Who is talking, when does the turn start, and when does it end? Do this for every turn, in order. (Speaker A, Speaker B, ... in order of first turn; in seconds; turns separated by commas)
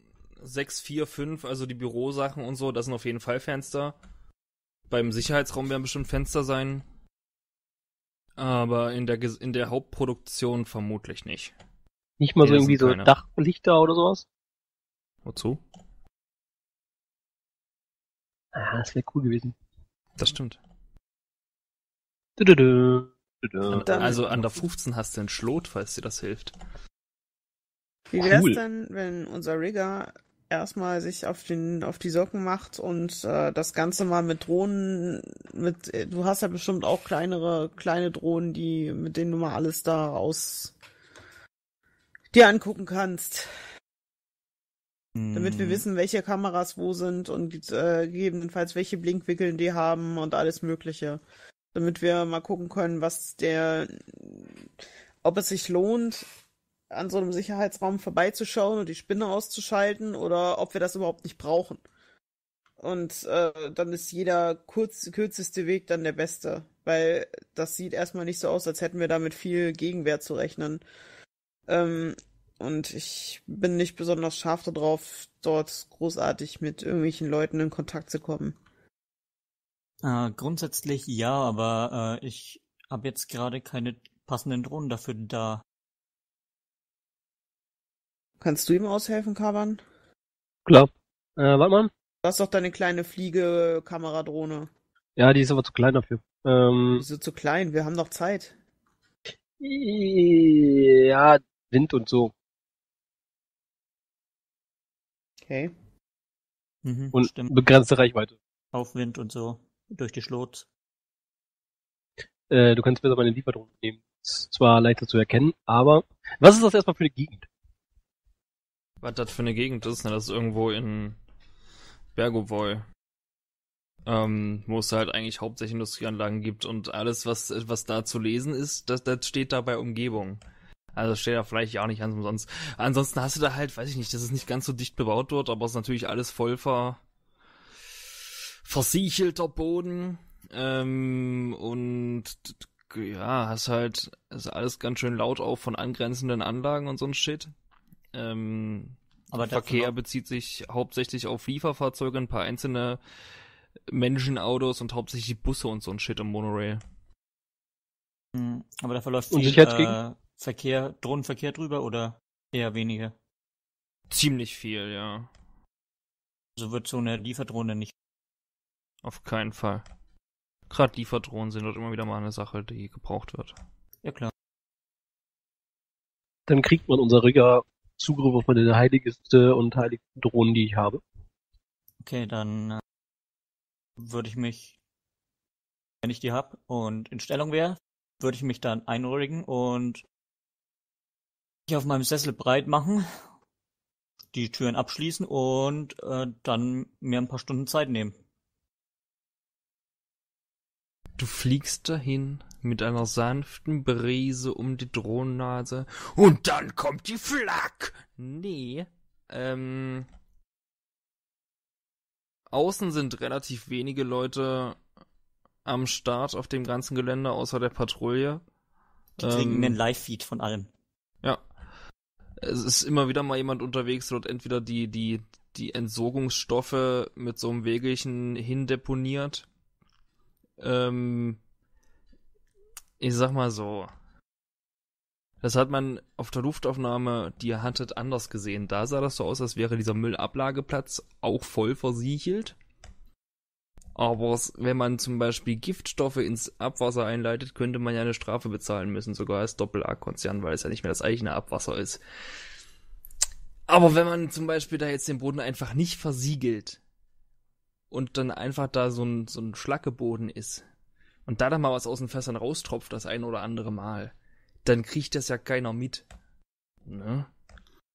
Speaker A: 0.4-4.0, Speaker A: 4.9-6.8, Speaker A: 8.4-11.5, Speaker B: 12.2-14.2, Speaker A: 12.4-13.1, Speaker A: 15.2-15.6, Speaker B: 18.5-19.5, Speaker A: 20.2-20.6, Speaker B: 22.4-23.9, Speaker A: 23.7-26.5, Speaker C: 23.9-24.2, Speaker C: 28.1-40.7, Speaker B: 28.2-28.6, Speaker C: 42.3-43.5, Speaker D: 45.1-45.8, Speaker C: 45.3-51.2, Speaker C: 51.7-54.7, Speaker C: 55.2-56.2, Speaker C: 56.9-61.8, Speaker C: 62.8-70.8, Speaker C: 71.7-78.5, Speaker D: 80.0-85.6, Speaker C: 88.4-89.8, Speaker B: 90.7-91.9, Speaker C: 92.2-94.7, Speaker B: 95.2-97.0, Speaker C: 97.0-98.5, Speaker B: 99.6-102.3, Speaker C: 105.4-105.7, Speaker D: 106.8-107.5, Speaker B: 107.1-108.3, Speaker D: 108.7-110.7, Speaker B: 112.5-117.5, Speaker A: 119.0-121.2, Speaker A: 122.1-122.8, Speaker A: 124.0-130.4, Speaker A: 130.9-137.0, Speaker A: 138.6-147.5, Speaker A: 148.1-153.0, Speaker D: 149.3-149.9, Speaker A: 153.9-156.8, Speaker D: 158.3-163.1, Speaker B: 159.3-160.0, Speaker A: 164.1-165.3, Speaker D: 166.6-167.9, Speaker A: 169.0-169.8, Speaker A: 170.7-173.6, Speaker D: 174.0-174.3, Speaker B: 176.5-181.0, Speaker D: 182.0-182.8, Speaker D: 184.0-184.8, Speaker D: 186.0-190.0, Speaker D: 191.7-193.2, Speaker D: 194.3-198.2, Speaker A: 201.2-210.1, Speaker A: 212.5-214.8, Speaker A: 215.6-218.4, Speaker D: 219.2-220.7, Speaker A: 219.2-219.8, Speaker A: 222.4-229.5, Speaker A: 230.6-231.4, Speaker A: 233.0-233.9, Speaker A: 235.4-242.6, Speaker A: 243.9-252.0, Speaker A: 253.7-256.8, Speaker A: 257.9-260.6, Speaker A: 261.3-264.1, Speaker A: 264.6-266.1, Speaker A: 266.9-267.3